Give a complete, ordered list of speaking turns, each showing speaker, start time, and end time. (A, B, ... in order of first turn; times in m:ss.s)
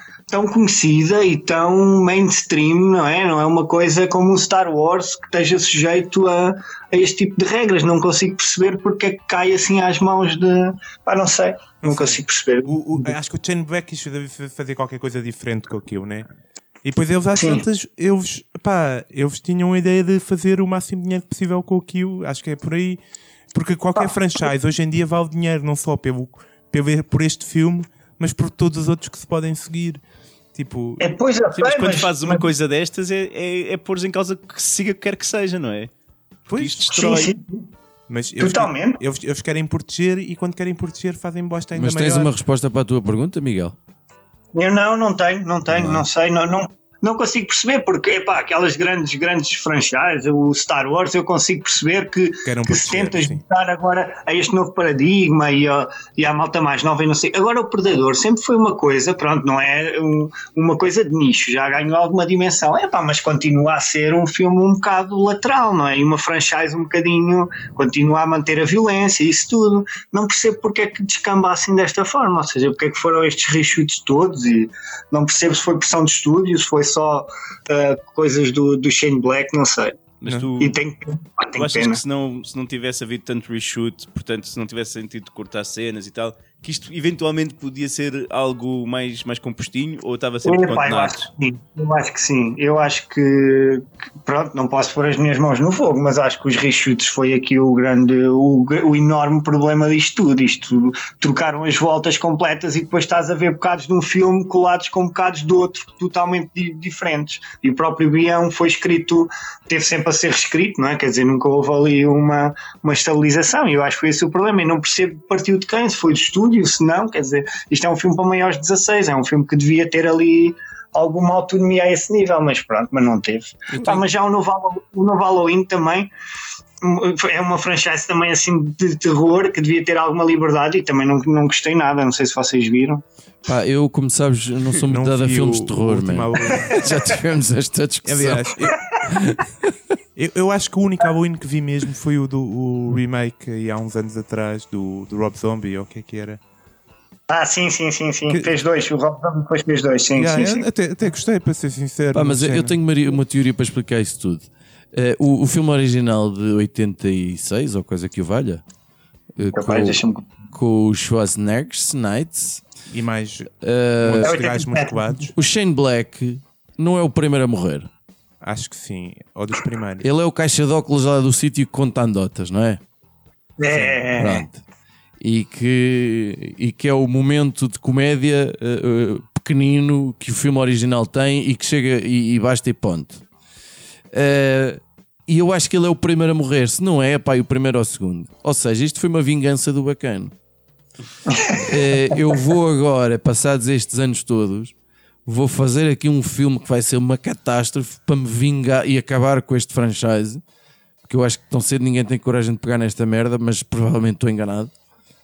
0:00.3-0:13.1 A
0:11.8-0:16.2 B
0:16.8-0:23.0 B
0:17.3-0:17.6 A
0:23.5-0:30.0 B
0:30.5-0:31.1 B
0:31.0-0:32.4 A
0:31.5-0:35.9 C
0:36.5-0:36.8 B
0:36.5-0:37.3 C
0:36.9-0:37.6 A
0:38.1-0:42.3 B
0:38.4-0:39.0 A
0:41.7-0:43.8 D
0:44.5-1:20.0 A
0:45.7-0:46.0 D
0:52.4-0:53.4 B
1:20.2-1:20.8 C
1:20.6-1:22.0 A
1:21.5-1:31.2 C
1:30.4-2:06.1 A
2:03.7-2:04.0 D
2:06.8-2:13.0 A
2:13.4-2:18.5 D
2:14.9-2:16.8 B
2:18.0-2:18.8 B
2:19.0-2:19.7 D
2:20.2-2:26.4 B
2:27.3-2:30.6 A
2:30.1-2:32.8 B
2:32.1-2:38.6 D
2:39.4-2:42.6 D
2:39.5-2:40.3 A
2:42.9-2:43.5 B
2:43.6-2:44.5 D
2:44.0-2:45.3 B
2:44.2-2:45.0 A
2:45.3-2:47.9 D
2:48.4-2:50.1 B
2:50.0-2:52.8 D
2:53.6-2:54.4 A
2:53.7-2:54.6 D
2:55.2-3:03.2 D
3:04.1-3:10.3 D
3:11.3-3:12.0 A
3:11.6-3:14.7 D
3:15.2-3:20.4 D
3:21.0-3:24.7 D